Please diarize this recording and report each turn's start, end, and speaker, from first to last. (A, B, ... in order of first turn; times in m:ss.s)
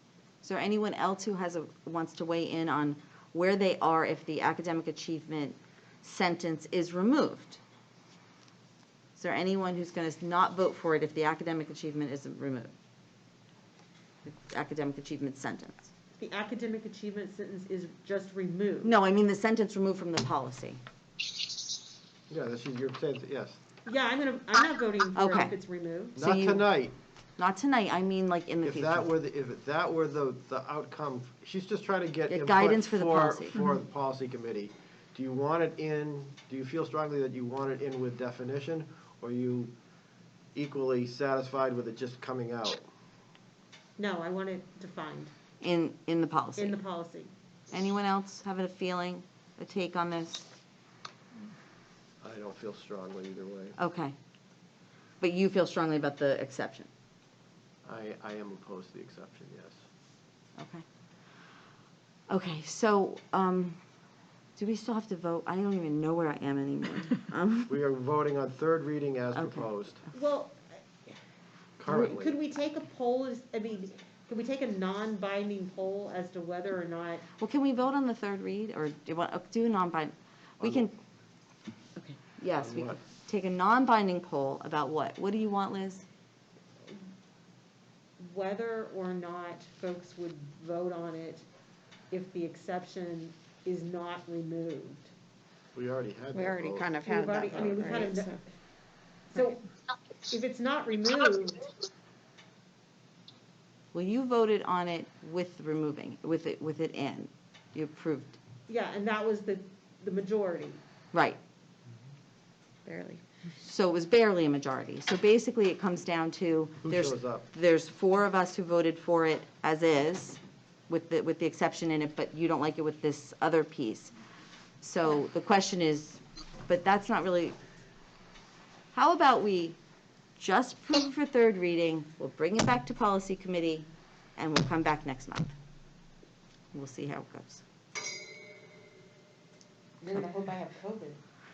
0:00.4-0:07.6 A
0:09.2-0:12.7 A
0:14.2-0:15.9 A
0:16.2-0:18.9 B
0:18.8-0:20.8 A
0:22.3-0:23.6 C
0:23.8-0:26.2 B
0:25.2-0:25.5 A
0:26.2-0:26.7 A
0:26.2-0:26.9 C
0:27.4-0:29.1 A
0:28.6-0:39.7 C
0:32.3-0:33.7 A
0:40.5-0:42.9 C
0:44.0-0:45.3 B
0:45.6-0:46.8 A
0:46.6-0:47.3 B
0:47.7-0:50.4 A
0:52.2-0:53.8 C
0:53.8-0:54.2 A
0:55.2-0:56.9 A
0:57.8-0:59.8 C
1:00.6-1:00.8 A
1:02.3-1:03.8 A
1:04.6-1:07.7 A
1:07.7-1:10.0 C
1:09.3-1:09.7 A
1:10.1-1:11.2 B
1:11.8-1:12.4 C
1:11.9-1:17.2 B
1:17.4-1:20.9 A
1:20.6-1:20.9 C
1:22.0-1:26.0 A
1:22.6-1:23.0 C
1:28.2-1:31.4 B
1:32.1-1:35.1 B
1:35.7-1:36.9 C
1:36.3-1:38.4 D
1:37.0-1:38.4 B
1:39.3-1:39.6 B
1:40.2-1:41.7 B
1:43.9-1:48.4 A
1:48.7-1:50.8 B
1:51.1-1:51.4 A
1:52.8-1:53.2 D
1:53.6-2:04.1 A
1:56.8-1:57.4 C
2:04.8-2:07.6 A
2:08.9-2:09.8 A
2:10.4-2:15.5 A
2:16.7-2:17.6 A
2:20.0-2:21.2 B